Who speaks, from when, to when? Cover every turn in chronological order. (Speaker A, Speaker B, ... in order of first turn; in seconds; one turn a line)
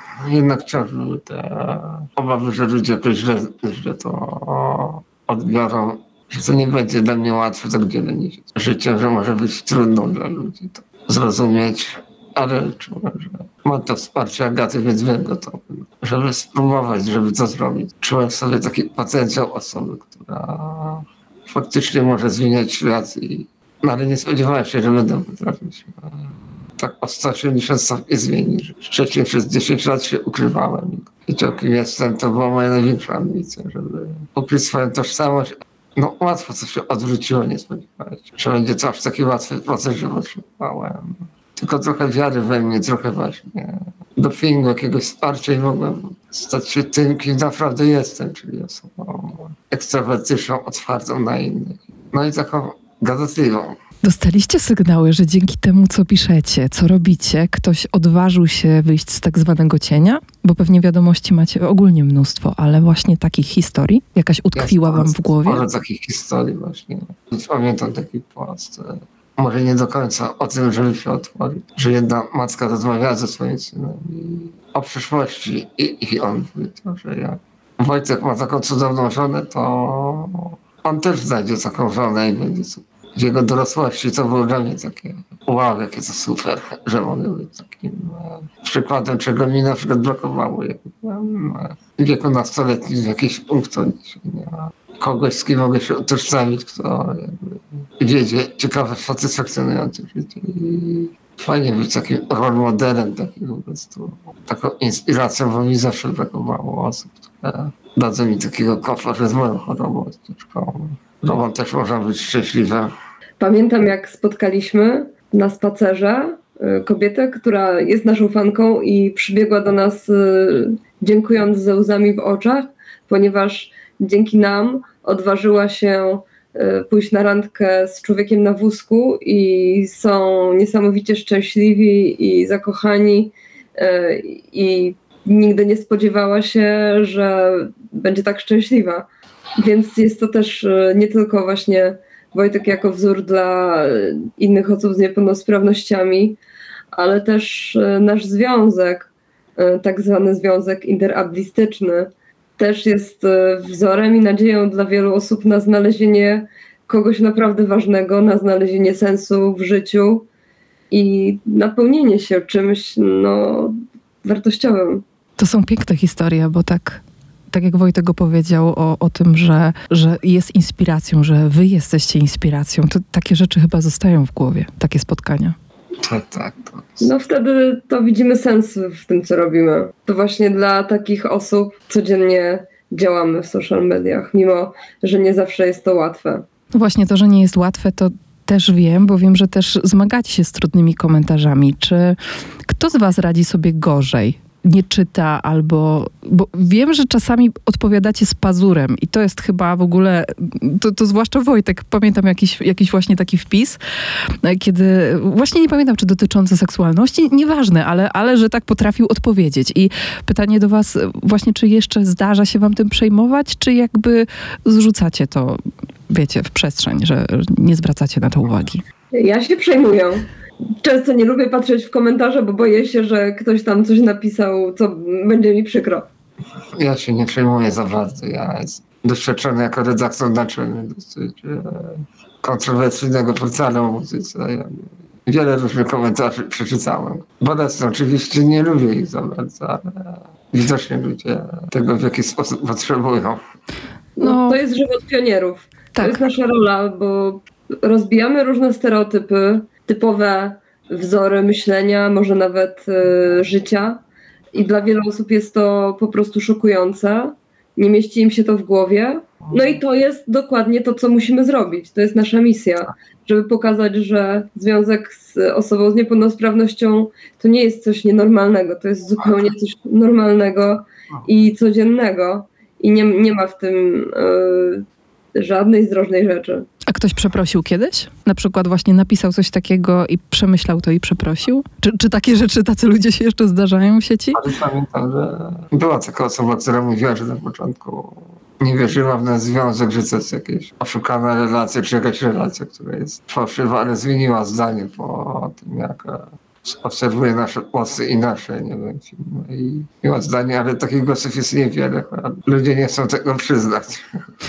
Speaker A: 0.2-53.8
Speaker B: 54.0-65.6
Speaker A: 64.5-112.9
Speaker C: 113.4-139.1
Speaker C: 139.6-146.4
Speaker C: 146.9-160.3
Speaker C: 160.9-165.0
Speaker B: 165.4-175.6
Speaker A: 176.0-177.1
Speaker C: 177.0-186.4
Speaker B: 186.7-218.8
Speaker C: 219.1-220.3
Speaker C: 220.8-226.1
Speaker A: 226.8-243.4
Speaker C: 244.2-254.0
Speaker B: 244.2-244.6
Speaker B: 245.9-246.2
Speaker C: 254.5-276.7
Speaker B: 276.9-284.4
Speaker A: 284.3-304.3